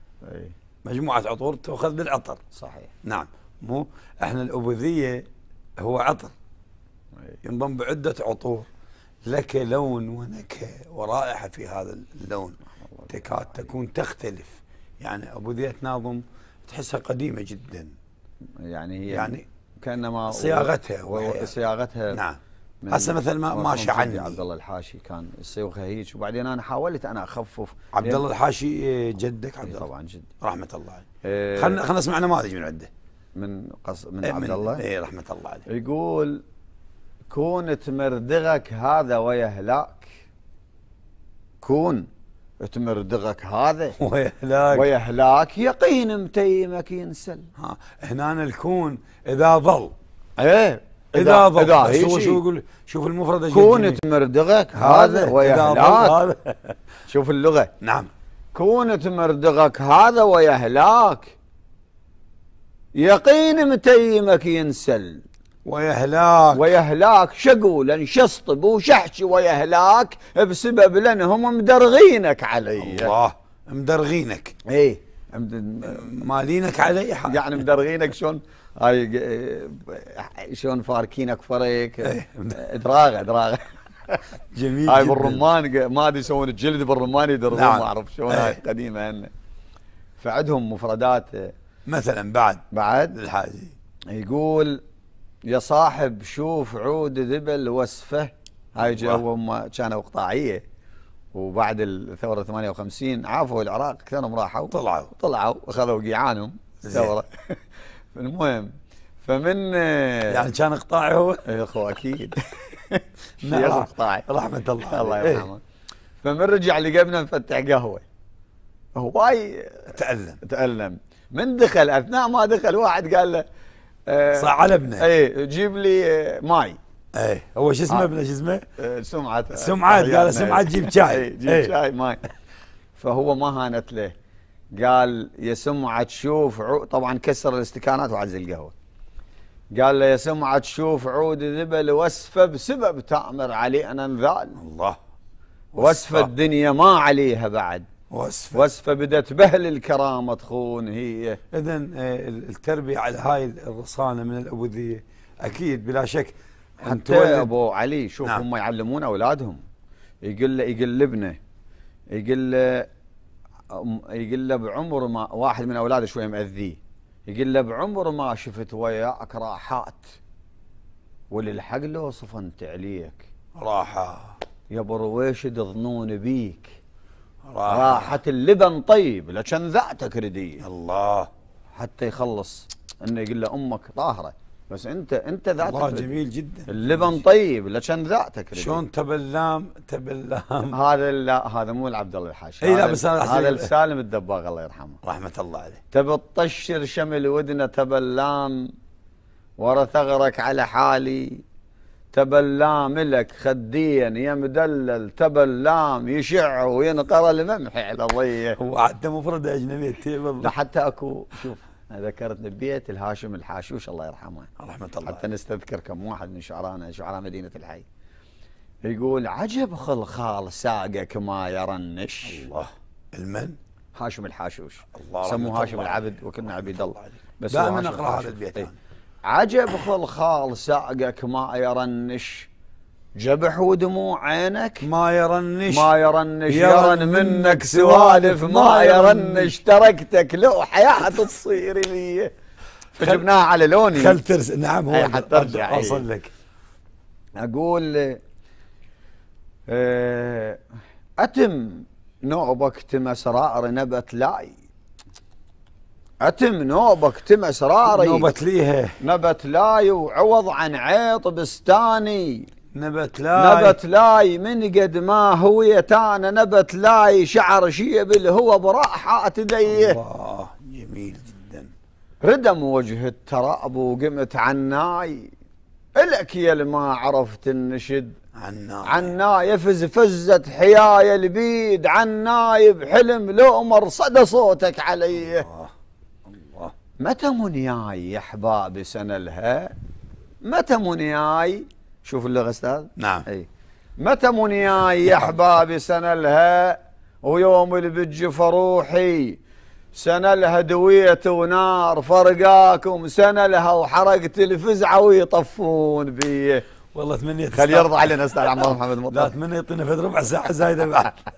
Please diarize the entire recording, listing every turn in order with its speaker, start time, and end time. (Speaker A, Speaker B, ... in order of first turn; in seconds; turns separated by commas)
Speaker A: 0.2-0.5, Speaker B: 0.8-2.4, Speaker A: 2.5-2.9, Speaker B: 3.0-5.2, Speaker B: 5.8-6.3, Speaker B: 7.4-8.7, Speaker B: 9.3-17.9, Speaker A: 18.6-22.2, Speaker B: 19.1-19.5, Speaker B: 20.3-21.5, Speaker B: 22.1-22.4, Speaker A: 22.8-28.2, Speaker B: 22.9-24.4, Speaker B: 27.9-29.9, Speaker A: 29.6-30.3, Speaker B: 30.4-32.9, Speaker A: 31.2-31.8, Speaker A: 33.4-34.8, Speaker B: 34.2-35.7, Speaker A: 35.7-36.4, Speaker A: 37.3-40.1, Speaker A: 41.6-42.1, Speaker A: 42.6-44.0, Speaker B: 44.0-44.9, Speaker A: 44.7-47.5, Speaker B: 47.6-49.9, Speaker A: 50.4-52.4, Speaker B: 51.1-54.0, Speaker A: 53.5-56.2, Speaker B: 54.7-56.8, Speaker A: 57.1-57.7, Speaker B: 57.8-58.1, Speaker A: 58.5-61.3, Speaker A: 63.0-65.2, Speaker B: 65.7-66.7, Speaker A: 66.5-73.1, Speaker B: 72.8-74.5, Speaker A: 74.7-76.1, Speaker B: 75.8-77.6, Speaker A: 77.2-84.2, Speaker B: 82.0-82.6, Speaker B: 84.5-85.4, Speaker A: 84.9-89.3, Speaker B: 87.5-88.6, Speaker A: 90.2-91.5, Speaker B: 91.9-93.7, Speaker A: 92.7-93.2, Speaker A: 94.1-94.8, Speaker A: 95.5-100.6, Speaker B: 98.8-99.2, Speaker A: 101.3-107.5, Speaker B: 104.7-105.1, Speaker B: 106.8-107.2, Speaker A: 108.1-108.7, Speaker A: 109.2-110.5, Speaker B: 110.3-111.4, Speaker A: 111.5-114.3, Speaker B: 113.4-115.5, Speaker A: 114.8-115.6, Speaker A: 116.2-118.0, Speaker A: 119.0-123.5, Speaker B: 119.9-120.4, Speaker A: 124.1-126.8, Speaker B: 124.3-125.1, Speaker B: 127.2-128.7, Speaker A: 128.8-132.2, Speaker B: 129.5-131.7, Speaker A: 133.0-134.1, Speaker A: 134.8-138.7, Speaker A: 139.7-144.6, Speaker B: 144.6-145.0, Speaker B: 145.7-146.3, Speaker A: 145.8-147.9, Speaker B: 148.1-148.7, Speaker A: 148.5-151.4, Speaker B: 151.5-157.5, Speaker A: 156.8-159.6, Speaker A: 160.2-161.4, Speaker A: 162.1-162.9, Speaker A: 163.7-170.2, Speaker A: 171.3-173.3, Speaker B: 173.6-174.3, Speaker A: 174.7-176.8, Speaker B: 177.5-178.2, Speaker A: 177.7-180.6, Speaker B: 180.6-181.3, Speaker A: 181.7-186.1, Speaker B: 185.6-187.2, Speaker A: 186.7-188.8, Speaker B: 188.6-190.8, Speaker A: 190.7-195.0, Speaker B: 192.6-193.7, Speaker B: 195.0-195.8, Speaker A: 195.9-198.7, Speaker A: 199.6-201.4, Speaker A: 202.1-208.6, Speaker B: 208.6-210.5, Speaker A: 210.4-214.5, Speaker B: 214.6-215.2, Speaker A: 215.1-217.8, Speaker A: 218.8-222.4, Speaker B: 222.2-223.6, Speaker A: 224.0-228.7, Speaker B: 224.9-226.0, Speaker B: 226.7-228.8, Speaker A: 229.3-232.5, Speaker A: 233.2-234.9, Speaker B: 234.8-235.9, Speaker A: 235.7-242.3, Speaker B: 236.5-239.6, Speaker A: 242.9-244.2, Speaker B: 243.9-246.3, Speaker A: 244.9-246.1, Speaker A: 247.4-248.2, Speaker A: 249.7-250.6, Speaker A: 251.2-254.5, Speaker A: 256.2-258.3, Speaker B: 257.9-259.0, Speaker A: 259.0-262.5, Speaker B: 262.7-263.8, Speaker A: 263.3-270.0, Speaker B: 269.7-271.7, Speaker A: 272.2-275.3, Speaker A: 276.0-278.1, Speaker B: 278.4-279.1, Speaker A: 278.9-285.5, Speaker B: 285.2-285.7, Speaker B: 286.3-286.7, Speaker A: 287.0-289.7, Speaker A: 290.4-293.5, Speaker B: 293.0-293.3, Speaker A: 294.0-299.4, Speaker A: 299.9-306.6, Speaker B: 306.9-311.2, Speaker A: 307.5-309.4